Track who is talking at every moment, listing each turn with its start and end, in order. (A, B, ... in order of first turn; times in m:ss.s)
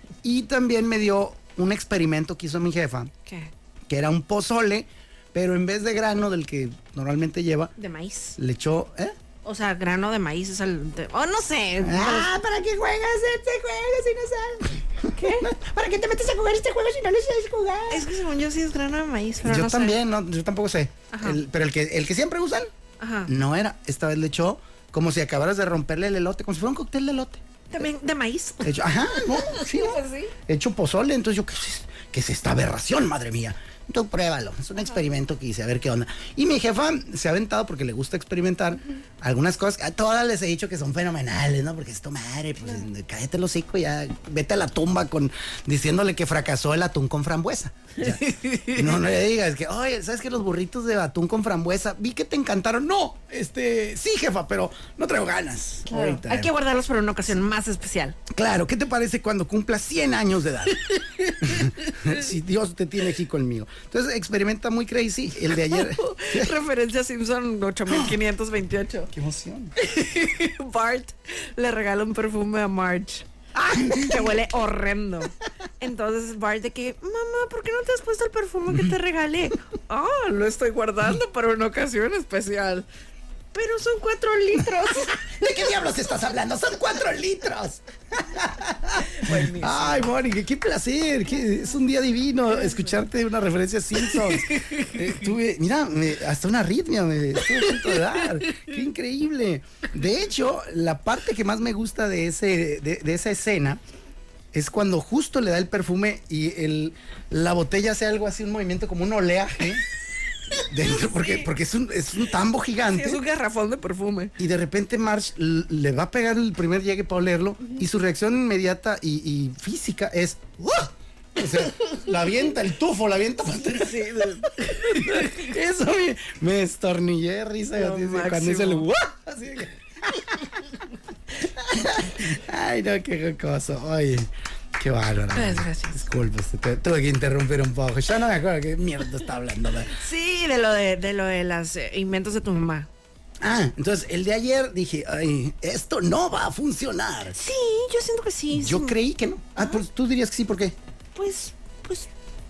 0:00.2-0:03.1 A
0:03.9-0:07.7 A
0:07.8-0:08.4 B
0:08.4-0:09.1 A
0:09.4-0:12.3 B
0:11.8-0:18.1 A
0:15.1-0:15.4 B
0:17.9-0:20.0 B
0:19.4-0:22.7 A
0:21.1-0:21.4 B
0:23.0-0:23.3 B
0:23.3-0:27.4 A
0:27.7-0:30.3 B
0:28.6-0:48.2 A
0:48.0-0:49.0 B
0:48.7-0:56.5 A
0:55.9-0:58.2 B
0:58.3-1:06.5 A
1:00.9-1:01.6 B
1:05.6-1:09.1 B
1:07.9-1:08.2 A
1:09.1-1:09.7 A
1:09.8-1:13.2 B
1:13.5-1:14.4 A
1:13.9-1:22.9 B
1:23.5-1:25.2 B
1:24.9-1:43.8 A
1:29.0-1:30.1 B
1:32.5-1:32.9 B
1:34.0-1:35.0 B
1:37.6-1:38.7 B
1:44.5-1:49.8 A
1:50.5-1:53.2 A
1:52.9-1:54.3 B
1:54.4-2:10.5 A
2:03.6-2:05.4 B
2:07.8-2:08.9 B
2:11.4-2:20.0 A
2:15.3-2:16.0 B
2:19.9-2:22.9 B
2:23.4-2:27.4 A
2:27.3-2:29.0 B
2:28.5-2:30.8 A
2:29.6-2:29.8 B
2:31.1-2:32.1 B